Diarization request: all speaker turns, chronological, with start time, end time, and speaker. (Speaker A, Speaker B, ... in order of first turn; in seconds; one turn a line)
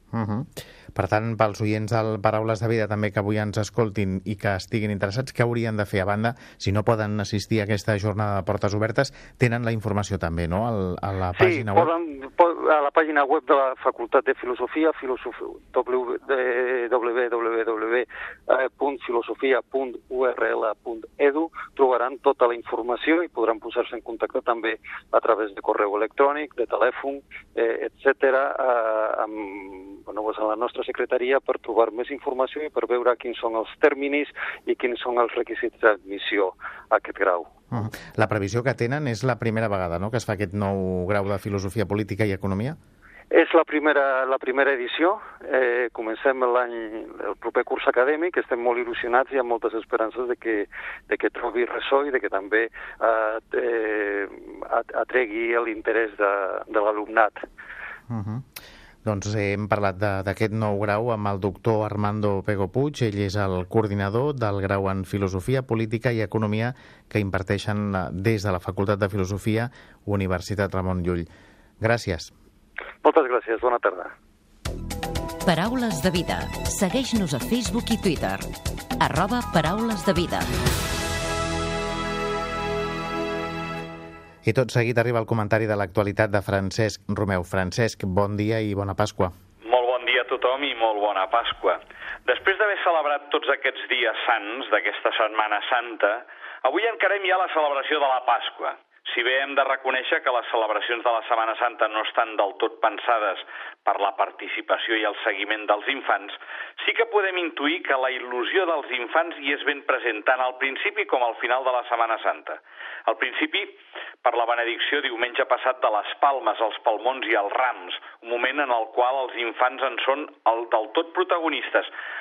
Speaker A: 0.1-11.9
Speaker B: 11.3-37.5
Speaker A: 37.7-42.8
Speaker B: 43.3-57.4
Speaker A: 58.1-58.5
Speaker A: 59.0-71.3
Speaker A: 71.8-72.3
Speaker B: 73.0-74.1
Speaker C: 75.4-78.5
Speaker C: 79.0-80.6
Speaker A: 84.4-89.3
Speaker D: 89.6-121.9